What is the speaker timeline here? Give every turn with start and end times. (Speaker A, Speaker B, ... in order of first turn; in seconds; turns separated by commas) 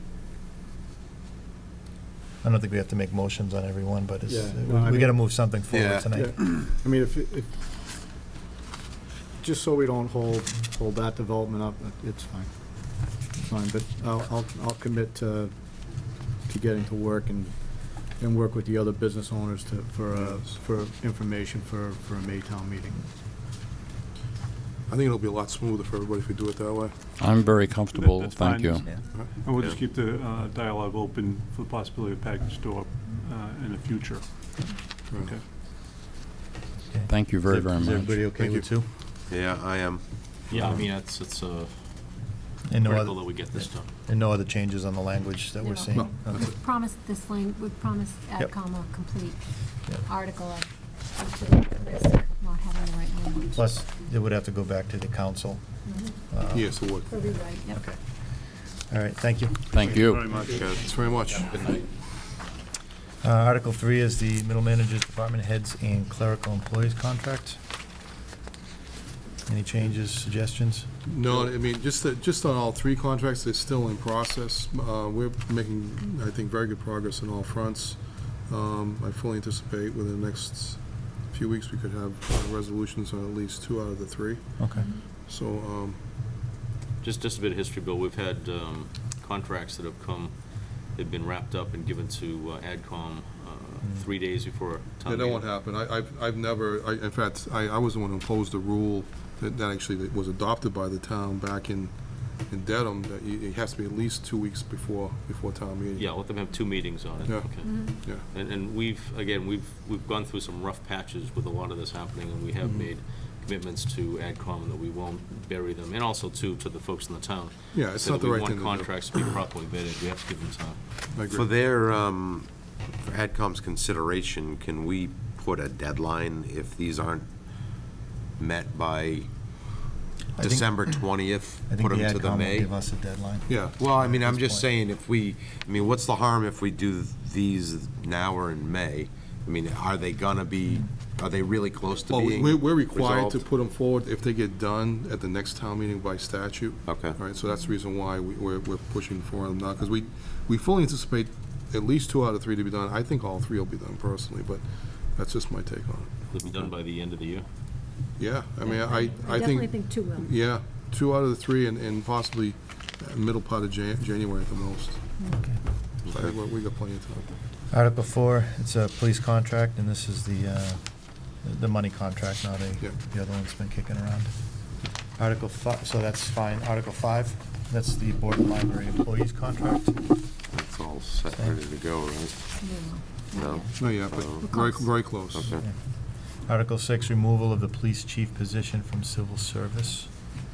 Speaker A: 2.4-6.3, Speaker B: 4.3-7.5, Speaker C: 5.7-6.1, Speaker B: 9.4-23.1, Speaker D: 20.2-20.6, Speaker D: 24.9-27.1, Speaker E: 27.2-29.0, Speaker F: 27.9-35.5, Speaker D: 35.1-35.4, Speaker A: 36.9-38.9, Speaker E: 37.1-38.2, Speaker D: 38.4-38.7, Speaker C: 39.3-40.9, Speaker G: 40.5-43.9, Speaker A: 42.7-46.5, Speaker H: 45.6-53.7, Speaker D: 45.9-46.5, Speaker A: 53.5-60.4, Speaker H: 55.9-56.2, Speaker D: 56.5-57.2, Speaker H: 57.1-57.9, Speaker E: 59.7-60.3, Speaker F: 60.2-60.8, Speaker C: 60.5-60.7, Speaker D: 60.7-61.8, Speaker A: 63.2-67.6, Speaker A: 69.5-71.4, Speaker D: 71.1-86.0, Speaker A: 84.6-84.9, Speaker H: 84.7-85.0, Speaker G: 87.0-95.5, Speaker D: 95.0-106.1, Speaker G: 106.0-120.8, Speaker D: 107.2-108.3, Speaker H: 107.6-108.0, Speaker D: 112.6-112.9, Speaker D: 117.7-119.1, Speaker D: 121.1-121.5, Speaker C: 121.3-127.3, Speaker C: 128.4-129.3, Speaker C: 130.4-132.7, Speaker A: 130.4-134.7, Speaker C: 133.5-143.5, Speaker D: 142.1-156.3, Speaker C: 146.9-147.2, Speaker G: 156.3-157.5, Speaker C: 156.4-156.7, Speaker D: 158.2-165.2, Speaker H: 158.6-160.3, Speaker A: 165.3-165.6, Speaker D: 166.1-167.3, Speaker C: 166.1-166.3, Speaker A: 167.7-174.3, Speaker A: 175.2-180.1, Speaker C: 180.5-184.5, Speaker H: 182.6-185.1, Speaker D: 183.8-185.5, Speaker C: 185.1-185.7, Speaker A: 185.6-190.1